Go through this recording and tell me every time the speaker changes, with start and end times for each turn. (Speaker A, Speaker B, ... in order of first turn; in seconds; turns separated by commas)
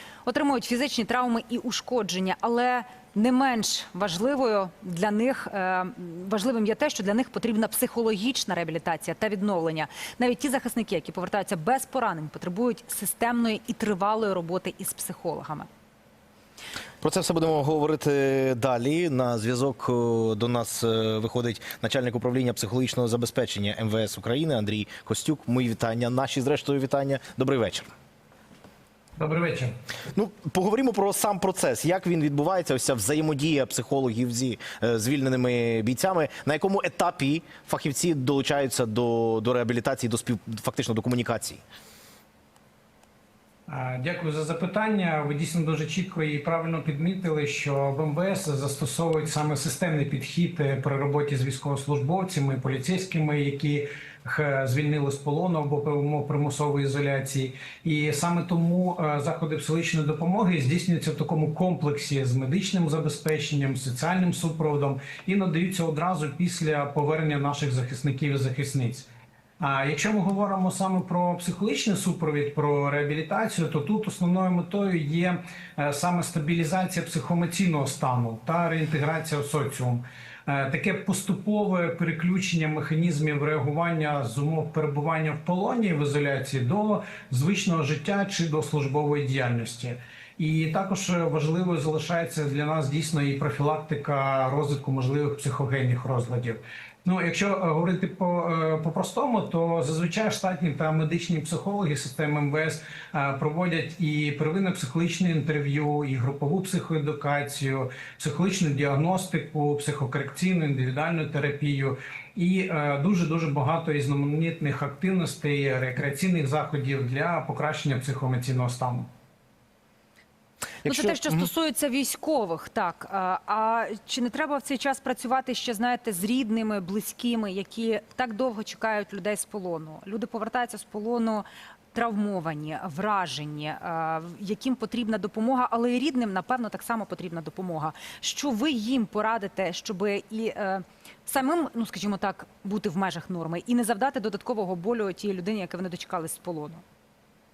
Speaker A: 0.2-15.7, Speaker B: 17.0-27.9, Speaker C: 29.2-29.7, Speaker B: 30.1-41.6, Speaker C: 43.7-69.1, Speaker C: 69.6-119.1, Speaker A: 120.8-146.8